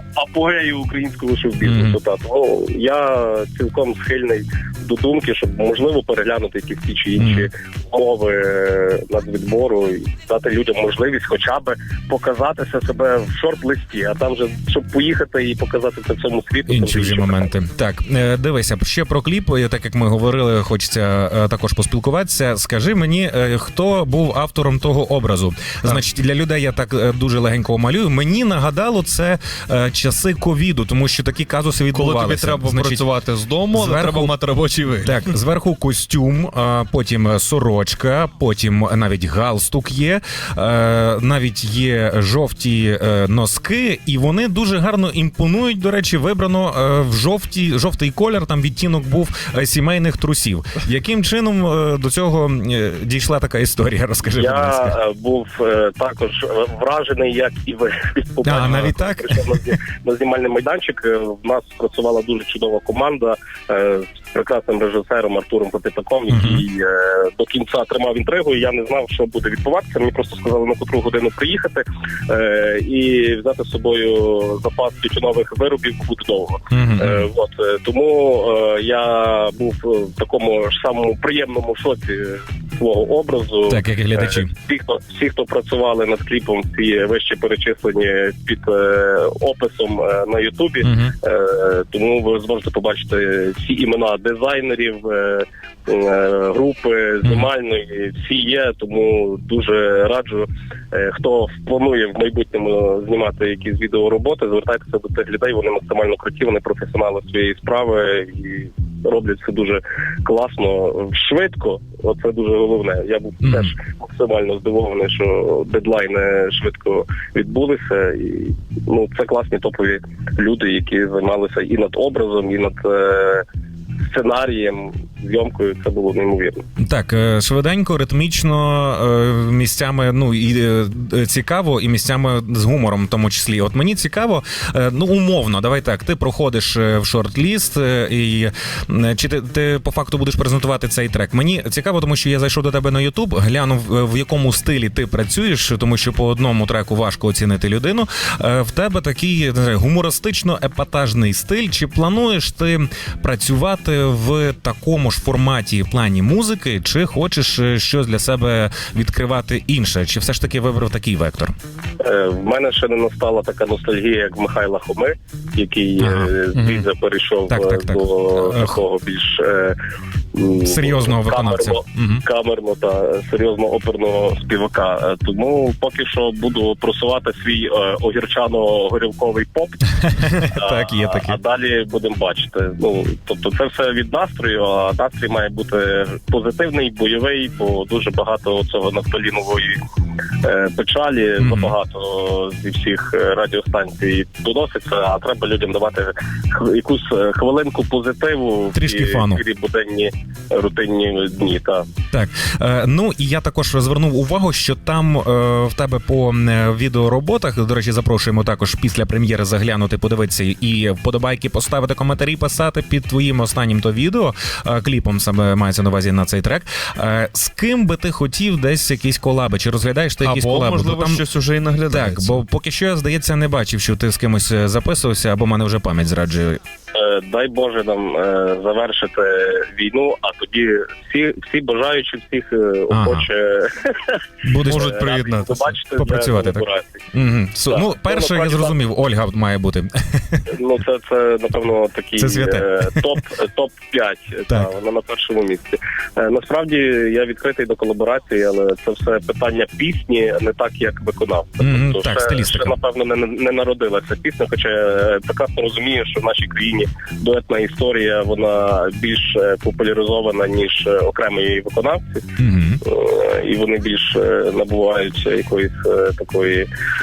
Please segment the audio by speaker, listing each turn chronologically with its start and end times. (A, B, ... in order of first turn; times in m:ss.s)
0:00.2-0:17.5 A
0:01.6-0:02.0 B
0:07.2-0:07.5 B
0:16.7-0:33.1 B
0:31.9-0:35.2 C
0:33.7-0:34.3 B
0:35.0-0:55.0 B
0:54.3-2:03.4 A
0:58.4-0:59.7 B
1:06.3-1:06.6 B
1:16.7-1:17.3 B
1:23.7-1:24.5 B
1:30.8-1:31.1 B
1:53.4-1:53.7 B
2:04.1-2:06.6 A
2:06.8-2:41.5 B
2:42.0-2:49.8 A
2:46.0-2:46.3 B
2:46.6-2:46.8 C
2:47.5-2:48.8 B
2:50.3-2:59.9 A
2:50.6-2:52.2 B
3:00.0-3:01.4 B
3:00.5-3:09.8 A
3:10.4-3:21.9 A
3:11.4-3:11.7 B
3:18.7-3:19.4 B
3:22.1-3:41.2 B
3:40.2-3:42.4 C
3:41.9-3:46.6 B
3:46.9-3:57.0 A
3:52.9-3:53.3 B
3:54.4-3:54.8 B
3:54.6-3:55.8 C
3:56.0-4:00.5 B
3:57.7-3:58.8 A
4:00.5-4:22.3 A
4:02.2-4:03.1 B
4:11.6-4:12.7 B
4:22.4-4:22.8 B
4:22.8-4:26.7 A